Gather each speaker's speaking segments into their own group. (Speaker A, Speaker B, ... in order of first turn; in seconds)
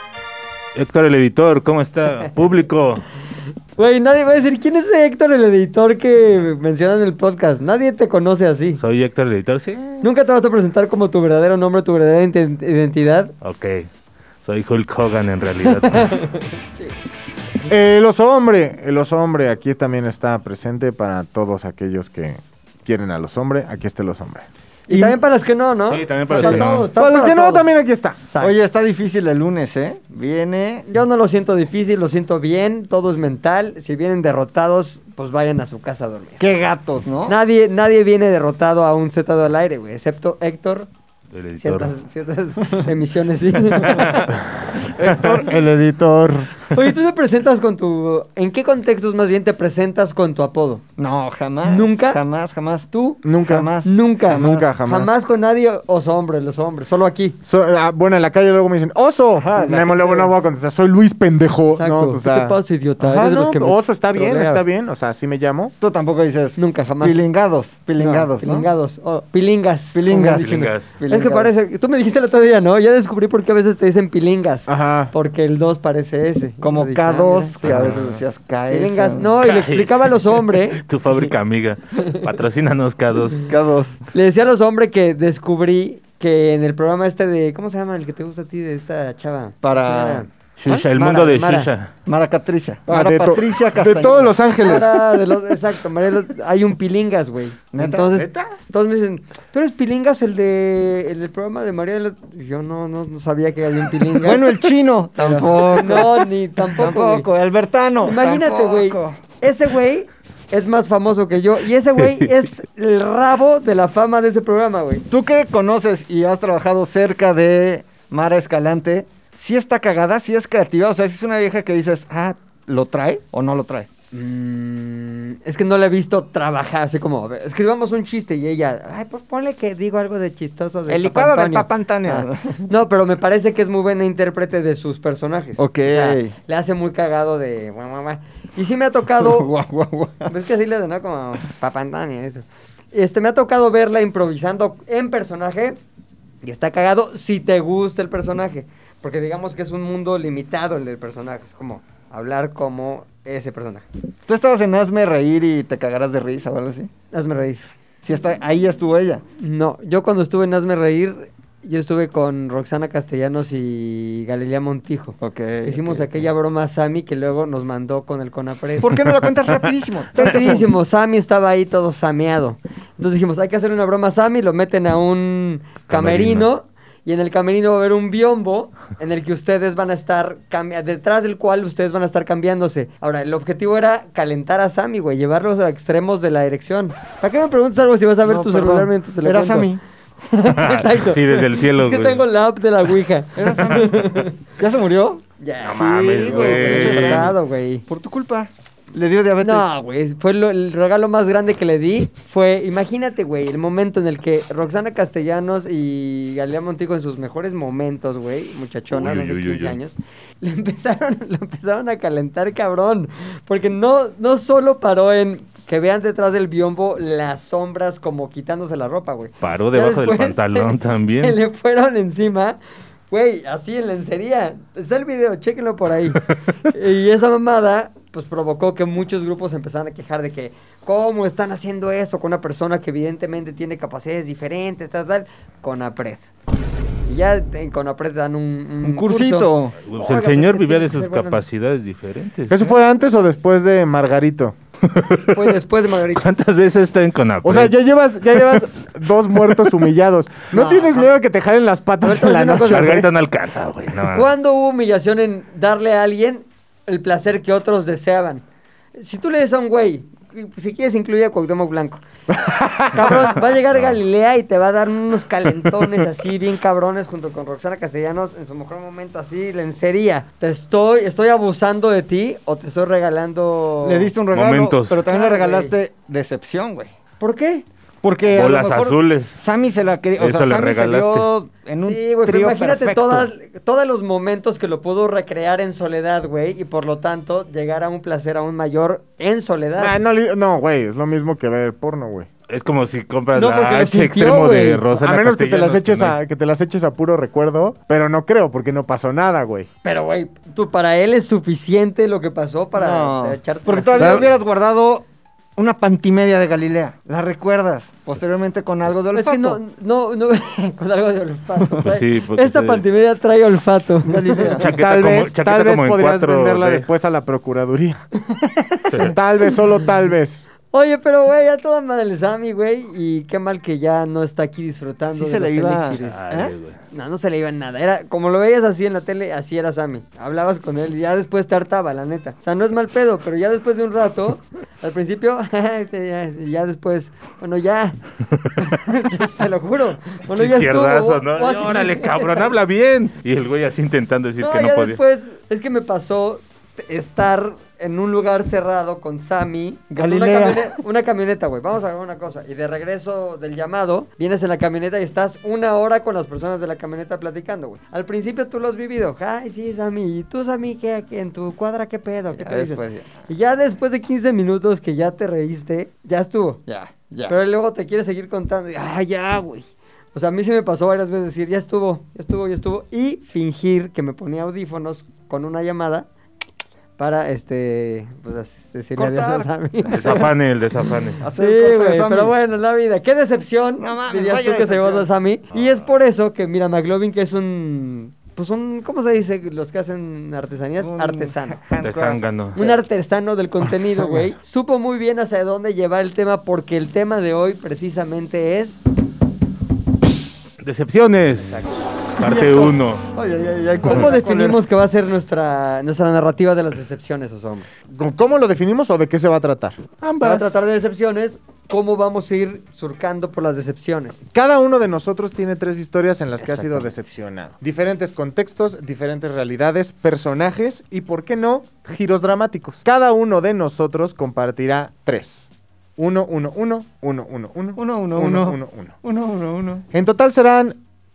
Speaker A: 0.8-3.0, 8.8-10.0, 13.4-13.9, 14.4-16.3, 25.9-26.9, 41.3-41.9, 44.0-44.4, 70.4-70.9, 77.6-78.2, 79.4-83.5, 90.6-91.9, 175.9-176.5, 190.5-192.2, 195.6-197.3, 208.9-209.8, 219.4-221.4, 239.9-242.6, 244.9-245.6, 246.1-247.7, 249.4-249.9, 252.7-254.3, 274.3-275.1, 278.3-279.3, 280.2-281.3, 292.5-296.2, 311.9-312.9, 314.6-316.9, 318.9-319.2, 326.0-326.8, 340.3-345.0, 379.9-381.2, 385.5-385.8, 391.8-392.6, 400.6-403.1, 410.0-410.5
Speaker B: 3.8-8.8, 10.0-13.3, 16.1-16.9, 24.9-27.7, 28.3-28.6, 30.9-36.4, 37.3-40.9, 41.6-44.3, 46.7-50.8, 51.6-52.2, 52.9-53.2, 53.9-57.4, 61.8-64.6, 66.6-67.2, 68.0-77.7, 78.7-81.2, 82.0-82.2, 84.1-91.7, 94.6-107.3, 108.0-115.1, 124.1-139.5, 140.3-145.8, 146.4-153.8, 157.1-157.7, 159.4-168.9, 170.2-189.7, 190.3-194.3, 195.4-197.8, 199.4-222.6, 223.1-236.3, 237.1-241.4, 245.3-246.2, 250.5-251.1, 252.0-252.9, 254.1-258.4, 258.9-262.0, 262.9-274.1, 275.1-275.7, 277.2-277.6, 281.8-290.0, 293.3-294.9, 299.8-304.3, 309.1-314.6, 320.7-326.2, 326.9-338.0, 338.6-342.5, 344.4-366.6, 367.3-376.1, 377.0-380.3, 381.4-391.6, 392.6-398.8, 401.5-401.8, 403.9-407.7, 410.2-414.2, 416.4-416.9
Speaker C: 17.7-24.5, 26.4-28.2, 53.2-53.7, 54.3-55.1, 57.4-65.7, 74.7-75.1, 92.9-95.0, 242.5-244.6, 247.4-253.1, 262.3-263.2, 289.8-292.3, 294.9-299.7, 314.7-318.0, 319.0-320.5, 407.9-409.8, 414.3-428.9, 429.9-430.8
Speaker D: 24.9-25.2, 28.4-30.9, 36.4-37.4, 43.9-44.2, 44.8-46.5, 51.0-54.7, 59.4-60.3, 65.8-68.7, 69.9-71.5, 76.6-79.3, 83.5-84.0, 89.6-90.2, 92.1-94.4, 97.7-98.2, 104.2-109.2, 115.1-123.9, 130.9-132.7, 135.6-136.4, 139.2-140.3, 154.3-156.9, 158.0-159.2, 165.2-166.1, 168.8-170.7, 188.2-189.8, 193.3-199.7, 238.8-239.8, 273.8-276.9, 278.0-283.3, 302.8-305.0, 305.6-309.6, 311.6-311.9, 314.1-314.7, 325.1-326.5, 349.9-350.8, 362.4-363.1, 366.7-367.4, 379.0-380.3, 381.2-382.3, 383.8-385.1, 390.8-392.8, 402.2-404.6, 427.8-429.9